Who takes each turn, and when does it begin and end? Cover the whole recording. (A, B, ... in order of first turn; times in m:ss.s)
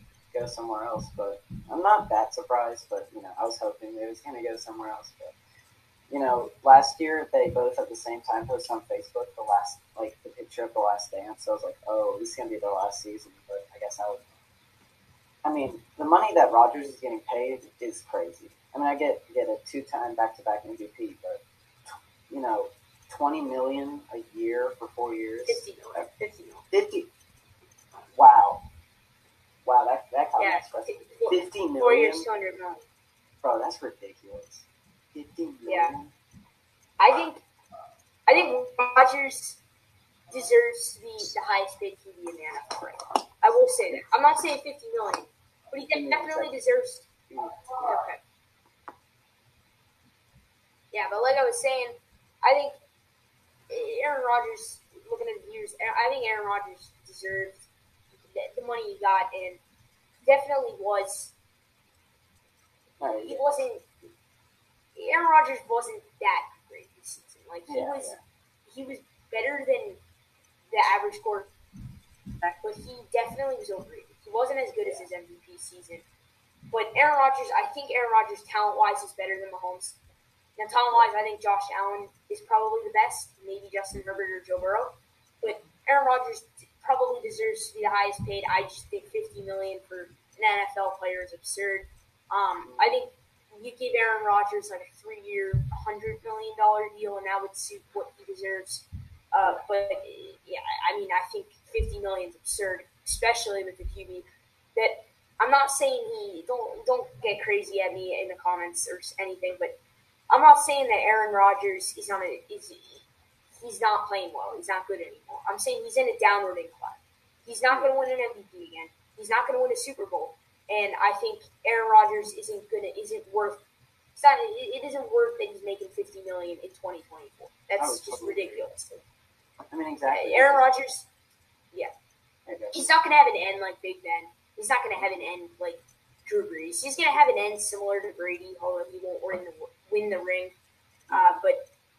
0:00.3-0:05.3 A
0:06.1-0:14.4 A
0:15.4-0:21.4 A
0:22.3-0:25.6 A
0:25.5-0:26.7 B
0:26.7-0:27.1 A
0:28.1-0:28.6 A
0:29.6-0:32.3 A
0:30.4-0:32.8 B
0:33.4-0:36.1 A
0:35.6-0:35.9 B
0:37.0-0:37.4 B
0:38.3-0:39.6 B
0:40.3-0:47.1 B
0:45.9-0:46.5 A
0:47.3-0:48.0 A
0:47.7-0:48.2 B
0:50.9-0:52.8 B
0:53.7-0:57.6 B
0:58.3-0:59.6 B
1:00.2-1:01.3 B
1:03.0-1:03.6 A
1:03.2-1:03.8 B
1:04.9-1:10.0 B
1:07.7-1:08.2 A
1:10.7-1:11.5 B
1:12.4-1:16.0 B
1:16.7-1:20.0 B
1:20.6-1:49.8 B
1:32.6-1:32.9 A
1:50.3-1:53.0 B
1:53.6-2:03.6 B
2:04.1-2:09.0 B
2:07.8-2:08.6 A
2:09.7-2:10.7 A
2:10.1-2:11.1 B
2:12.4-2:12.8 A
2:12.7-2:20.5 B
2:15.0-2:15.3 A
2:21.1-2:21.6 B